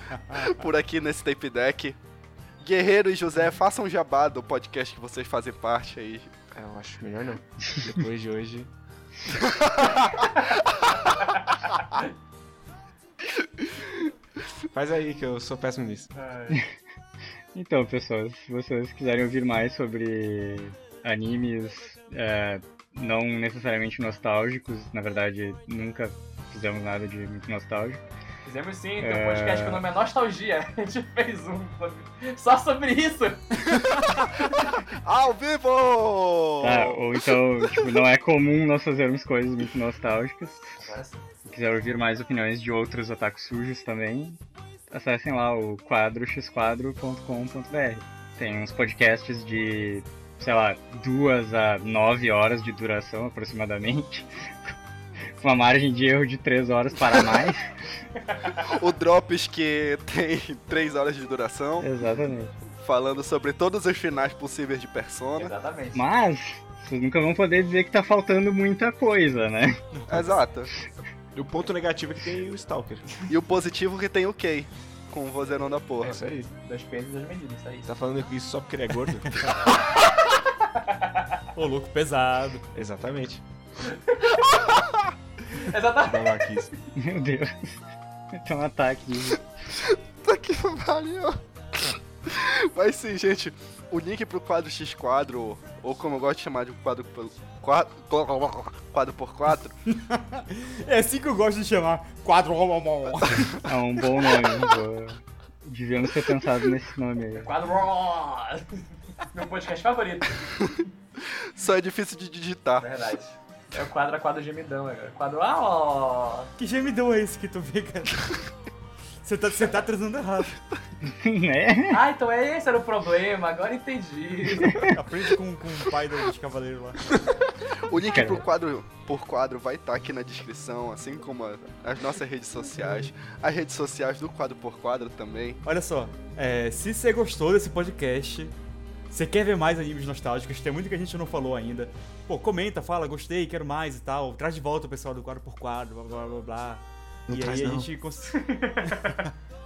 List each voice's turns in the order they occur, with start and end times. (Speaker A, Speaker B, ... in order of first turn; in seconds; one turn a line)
Speaker A: 0.1-0.5
Speaker B: 0.3-2.0
Speaker B: 2.6-6.3
Speaker C: 6.5-8.7
Speaker D: 10.2-12.1
Speaker C: 14.7-16.1
Speaker D: 16.1-16.6
Speaker E: 17.5-28.0
Speaker D: 28.4-33.6
Speaker E: 29.0-29.8
Speaker B: 33.6-38.0
Speaker E: 36.6-40.9
Speaker D: 40.8-41.2
Speaker E: 41.5-54.7
Speaker E: 55.4-57.7
Speaker D: 58.2-58.8
Speaker B: 58.7-61.9
Speaker E: 61.8-62.5
Speaker B: 62.8-65.5
Speaker D: 65.4-66.0
Speaker E: 65.9-69.8
Speaker A: 69.9-70.4
Speaker B: 70.1-70.7
Speaker C: 71.3-73.0
Speaker B: 73.3-76.2
Speaker C: 76.0-76.5
Speaker D: 76.6-77.9
Speaker C: 77.8-79.5
Speaker D: 80.0-81.4
Speaker A: 81.5-82.7
Speaker C: 82.7-83.4
Speaker D: 83.8-84.4
Speaker B: 84.5-85.1
Speaker D: 85.5-86.4
Speaker C: 86.0-86.7
Speaker E: 86.9-87.8
Speaker E: 88.3-89.4
Speaker B: 89.7-99.7
Speaker A: 99.9-104.0
Speaker E: 103.6-107.5
Speaker D: 107.3-110.5
Speaker B: 111.3-112.9
Speaker D: 112.8-116.5
Speaker A: 116.6-118.4
Speaker A: 119.2-120.6
Speaker E: 121.0-122.0
Speaker D: 121.9-124.8
Speaker E: 124.6-124.9
Speaker A: 124.9-127.2
Speaker B: 127.8-135.6
Speaker E: 128.1-128.4
Speaker A: 135.6-138.5
Speaker A: 139.1-149.3
Speaker C: 147.3-147.9
Speaker D: 148.3-149.2